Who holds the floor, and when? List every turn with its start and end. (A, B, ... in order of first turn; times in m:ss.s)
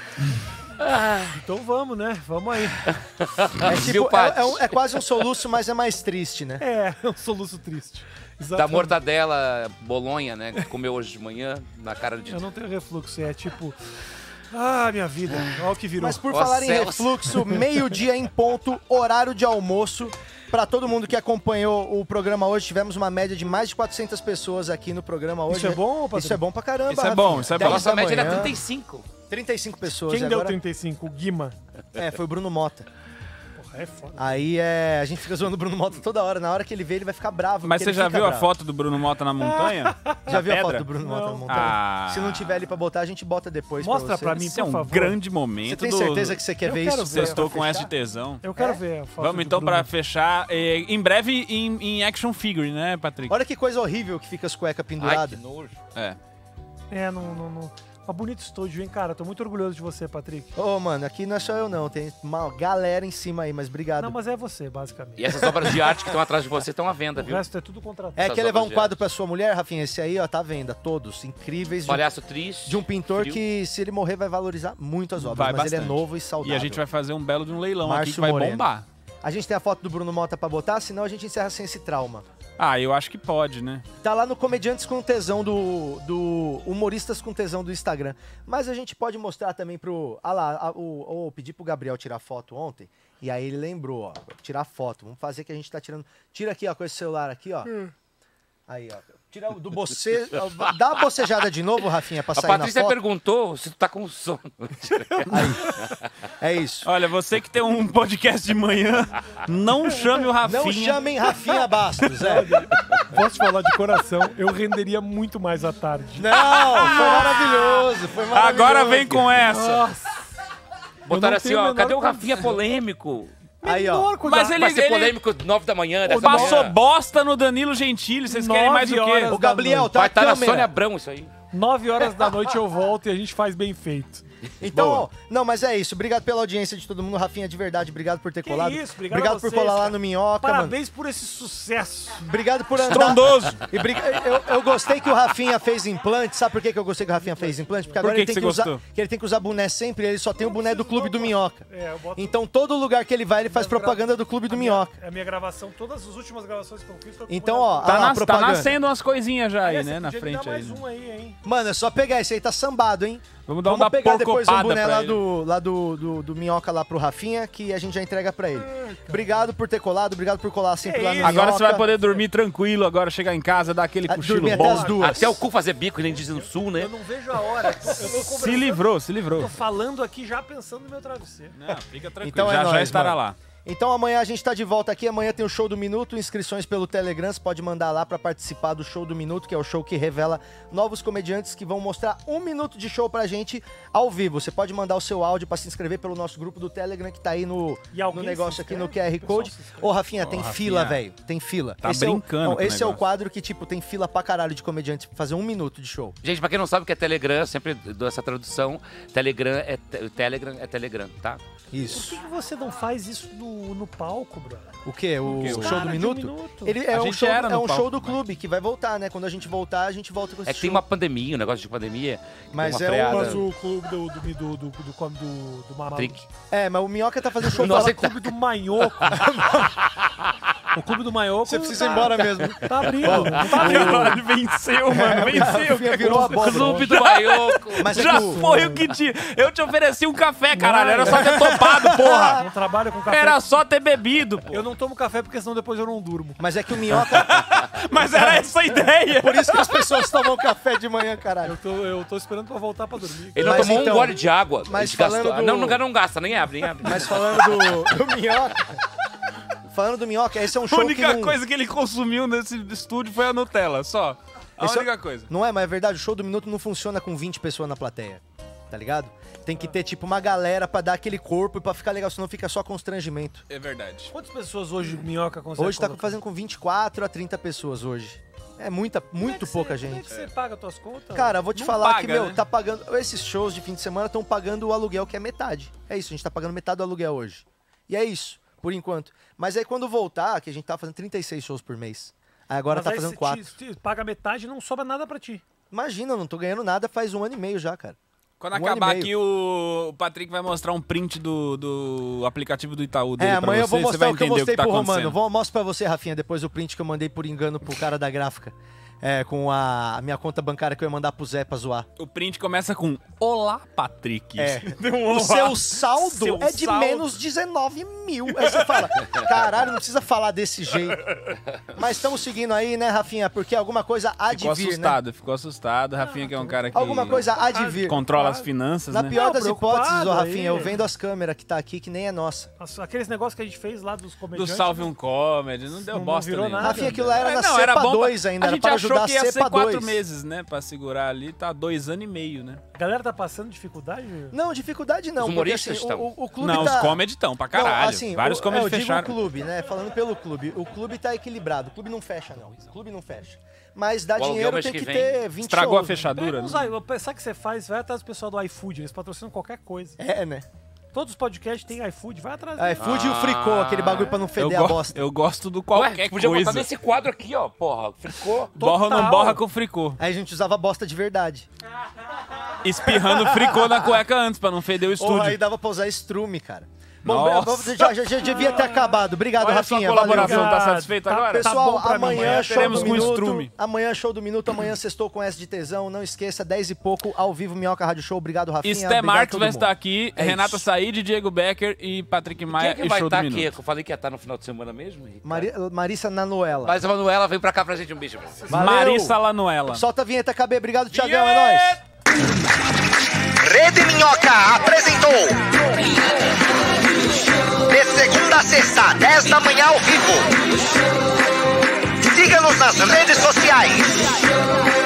0:00.8-0:01.3 A
0:01.3-0:02.9 B
0:02.9-0:05.1 A
0:03.6-0:06.6 C
0:06.6-0:08.9 B
0:08.5-0:12.5 A
0:12.3-0:13.8 B
0:14.5-0:16.2 B
0:15.3-0:15.7 A
0:16.0-0:28.6 C
0:16.3-0:17.4 A
0:25.5-0:26.4 B
0:26.9-0:28.0 D
0:27.6-0:29.1 A
0:29.3-0:30.6 C
0:30.1-0:31.6 B
0:32.0-0:32.9 C
0:33.6-0:34.4 B
0:34.2-0:38.5 C
0:37.6-0:40.9 D
0:39.4-0:40.4 B
0:40.3-0:44.4 C
0:41.0-0:41.8 B
0:41.5-0:42.5 D
0:43.8-0:45.2 B
0:44.4-0:46.4 D
0:45.6-0:47.9 C
0:46.6-0:47.8 B
0:47.0-0:48.6 D
0:48.4-0:49.9 B
0:49.2-0:53.4 D
0:53.3-0:55.4 C
0:55.0-0:55.8 A
0:56.9-1:00.5 B
1:00.6-1:04.2 C
1:04.0-1:05.5 B
1:05.2-1:07.4 A
1:07.2-1:08.2 B
1:08.2-1:12.0 C
1:08.2-1:09.0 A
1:11.9-1:13.4 A
1:12.7-1:16.8 C
1:15.2-1:18.8 D
1:17.8-1:18.7 C
1:19.2-1:22.3 C
1:22.6-1:23.8 D
1:24.0-1:37.7 C
1:38.7-1:43.0 C
1:42.4-1:45.2 A
1:45.2-1:45.9 B
1:45.3-1:45.7 C
1:46.4-1:46.9 C
1:46.8-1:51.0 D
1:50.4-1:52.6 C
1:52.1-1:57.4 B
1:56.2-1:59.3 C
1:56.5-1:57.5 D
1:58.3-1:59.9 D
1:59.4-2:00.3 B
2:01.1-2:03.3 A
2:01.1-2:02.6 B
2:03.6-2:04.7 B
2:03.6-2:04.2 C
2:04.2-2:05.2 D
2:04.6-2:06.8 A
2:06.0-2:06.7 B
2:06.2-2:09.3 D
2:08.3-2:10.0 B
2:09.3-2:10.7 C
2:09.9-2:11.3 A
2:11.5-2:14.2 B
2:14.6-2:20.8 C
2:14.7-2:15.1 D
2:18.4-2:22.3 B
2:22.2-2:31.6 C
2:22.8-2:23.6 D
2:27.2-2:28.0 B
2:28.0-2:28.8 D
2:30.4-2:32.4 B
2:32.2-2:34.9 C
2:33.5-2:38.1 B
2:37.3-2:38.8 C
2:37.8-2:40.8 D
2:39.6-2:41.4 B
2:41.4-2:51.9 C
2:43.5-2:45.2 D
2:48.7-2:49.4 B
2:50.8-2:52.3 B
2:51.2-2:54.9 D
2:54.1-2:55.4 C
2:54.4-2:55.4 B
2:55.0-2:56.9 A
2:56.0-3:01.8 B
2:57.9-2:59.6 D
3:01.5-3:03.4 D
3:02.2-3:26.2 C
3:17.9-3:20.0 B
3:20.2-3:21.0 D
3:21.8-3:23.0 D
3:26.2-3:31.4 A
3:31.7-3:32.2 C
3:31.9-3:34.7 B
3:34.8-3:40.8 C
3:35.2-3:36.8 B
3:35.3-3:36.0 D
3:36.9-3:38.2 D
3:40.5-3:43.5 A
3:42.5-3:43.5 C
3:43.1-3:46.3 B
3:45.9-3:46.2 A
3:46.5-3:48.1 C
3:47.5-3:49.2 B
3:47.6-3:48.3 A
3:49.0-3:49.8 C
3:50.7-3:54.2 B
3:51.4-3:54.2 C
3:53.1-4:02.4 D
3:54.9-3:57.0 C
3:55.1-3:56.9 B
3:56.9-3:58.0 A
3:57.8-3:58.4 C
3:58.0-3:58.9 B
4:00.5-4:01.6 B
4:01.1-4:02.4 C
4:02.4-4:03.5 B
4:03.1-4:04.6 D
4:04.5-4:06.4 B
4:06.4-4:07.5 C
4:06.9-4:10.1 D
4:09.1-4:11.6 C
4:11.4-4:14.0 B
4:13.4-4:17.1 A
4:13.4-4:15.8 C
4:16.8-4:18.7 C
4:19.7-4:21.4 C
4:20.6-4:25.3 D
4:24.6-4:33.4 C
4:33.5-4:34.1 D
4:34.1-4:36.2 B
4:35.6-4:40.1 C
4:39.2-4:41.4 B
4:41.1-4:53.6 C
4:41.6-4:42.4 D
4:52.7-4:55.4 B
4:55.7-4:58.0 C
4:58.4-5:05.2 D
4:58.5-4:59.1 C
5:03.2-5:11.9 C
5:12.0-5:17.1 D
5:14.4-5:21.0 C
5:21.8-5:25.0 C
5:24.3-5:27.2 D
5:26.0-5:28.5 B
5:26.7-5:28.0 C
5:27.8-5:29.2 D
5:28.9-5:32.5 C
5:29.1-5:30.8 B
5:32.6-5:34.9 B
5:34.3-5:42.6 D
5:35.9-5:37.0 B
5:36.6-5:40.0 C
5:42.8-5:44.4 B
5:44.3-5:56.1 C
5:45.2-5:46.1 A
5:46.4-5:49.1 D
5:54.2-5:55.2 A
5:55.4-5:56.7 D
5:56.1-6:00.0 B
6:00.0-6:00.5 C
6:00.9-6:02.9 B
6:02.6-6:05.0 C
6:02.8-6:04.2 A
6:04.4-6:06.7 D
6:05.8-6:08.5 A
6:08.6-6:10.0 D
6:08.6-6:09.4 B
6:10.0-6:11.5 C
6:12.6-6:15.4 D
6:12.9-6:13.9 C
6:15.0-6:20.6 C
6:17.0-6:17.9 D
6:18.2-6:18.9 B
6:19.4-6:23.5 D
6:20.0-6:23.2 B
6:21.3-6:30.6 C
6:28.6-6:33.5 D
6:32.5-6:35.5 A
6:35.2-6:36.8 C
6:36.6-6:38.5 A
6:38.5-6:39.2 C
6:38.5-6:39.8 D
6:39.7-6:41.8 C
6:40.9-6:41.8 D
6:43.4-6:45.8 E
6:47.6-6:50.4 E
6:52.0-6:54.2 E